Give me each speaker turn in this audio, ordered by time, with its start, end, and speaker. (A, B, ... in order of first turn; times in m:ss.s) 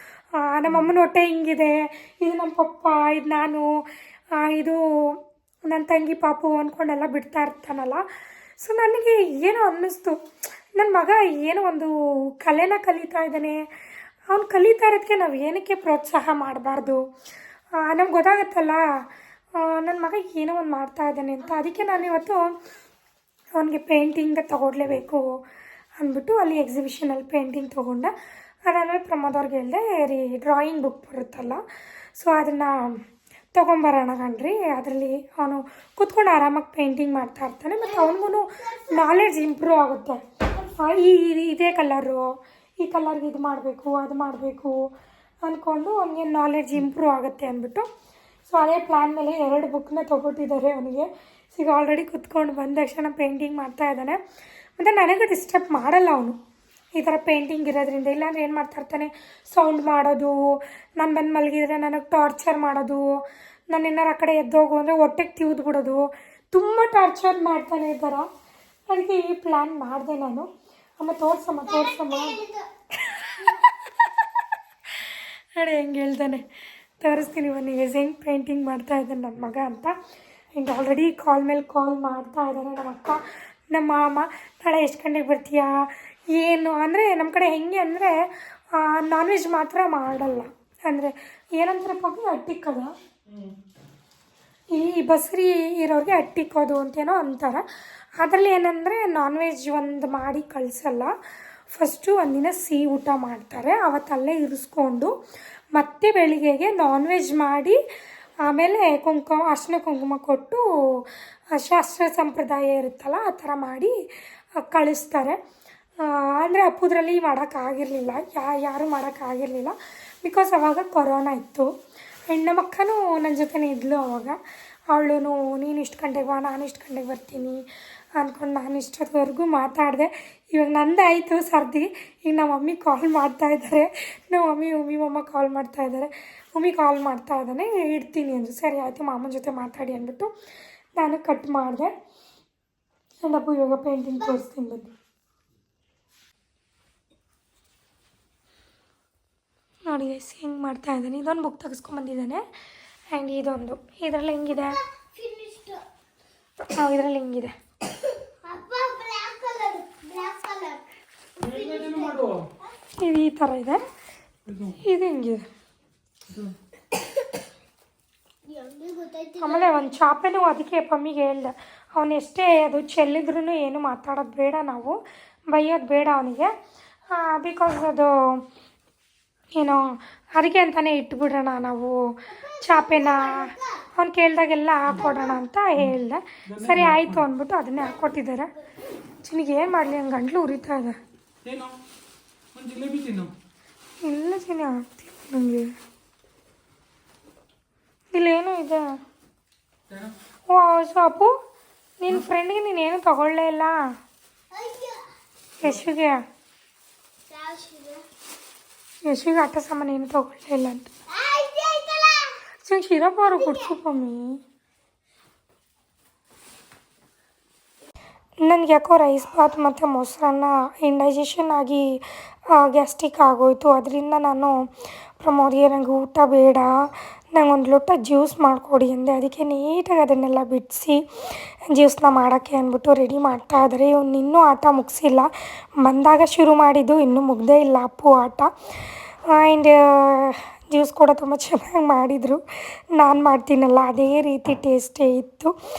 0:00.4-0:03.7 A
0:04.4-0:05.2 A
0:05.7-0:08.0 A
0:08.6-0:10.2 A
0:10.8-0:13.6 A
0:14.3-0:17.0 A
0:17.8-0:19.0 A
0:19.6-0:22.5 A
0:23.6-0:25.4 A
0:26.0-0:28.1 A
0:28.7-0:31.6 A
0:32.2-0:33.0 A
0:33.5-0:44.8 A
0:37.8-0:39.1 B
0:45.4-0:47.9 A
0:48.5-0:54.2 A
0:54.8-0:56.4 A
0:57.0-1:08.3 A
1:08.9-1:12.4 A
1:11.6-1:12.6 B
1:13.0-1:13.4 A
1:15.6-1:16.4 A
1:17.0-1:20.0 A
1:20.5-1:23.2 A
1:23.7-1:32.9 A
1:34.7-1:37.6 A
1:38.2-1:41.1 A
1:41.7-1:45.1 A
1:45.7-1:47.8 A
1:48.4-1:53.9 A
1:54.6-1:55.4 A
1:56.0-2:01.7 A
2:02.3-2:04.4 A
2:04.9-2:07.6 A
2:08.2-2:20.3 A
2:21.0-2:21.9 A
2:23.2-2:24.9 A
2:29.8-2:32.4 A
2:33.1-2:34.8 A
2:34.5-2:35.8 B
2:36.8-2:37.5 A
2:38.4-2:40.8 B
2:41.4-2:42.4 B
2:41.6-2:42.4 C
2:43.0-2:43.8 A
2:44.8-2:45.4 A
2:48.4-2:50.0 B
2:49.4-2:55.0 A
2:55.5-2:56.5 A
2:57.1-2:58.4 A
2:59.6-3:02.0 A
3:02.3-3:03.8 B
3:02.6-3:08.5 A
3:04.9-3:05.4 B
3:06.5-3:07.2 C
3:09.2-3:11.0 A
3:11.4-3:11.8 C
3:12.5-3:13.3 C
3:14.0-3:15.7 A
3:18.1-3:18.8 A
3:20.5-3:21.3 A
3:22.0-3:23.8 A
3:24.5-3:25.0 B
3:25.6-3:26.2 A
3:27.3-3:28.0 B
3:29.0-3:30.9 A
3:31.1-3:32.4 B
3:32.6-3:34.4 A
3:33.2-3:33.7 B
3:38.4-3:42.0 A
3:42.5-3:44.5 A
3:45.2-3:46.7 A
3:47.3-3:51.0 A
3:51.7-3:55.3 A
3:55.8-4:02.4 A
4:02.9-4:05.5 A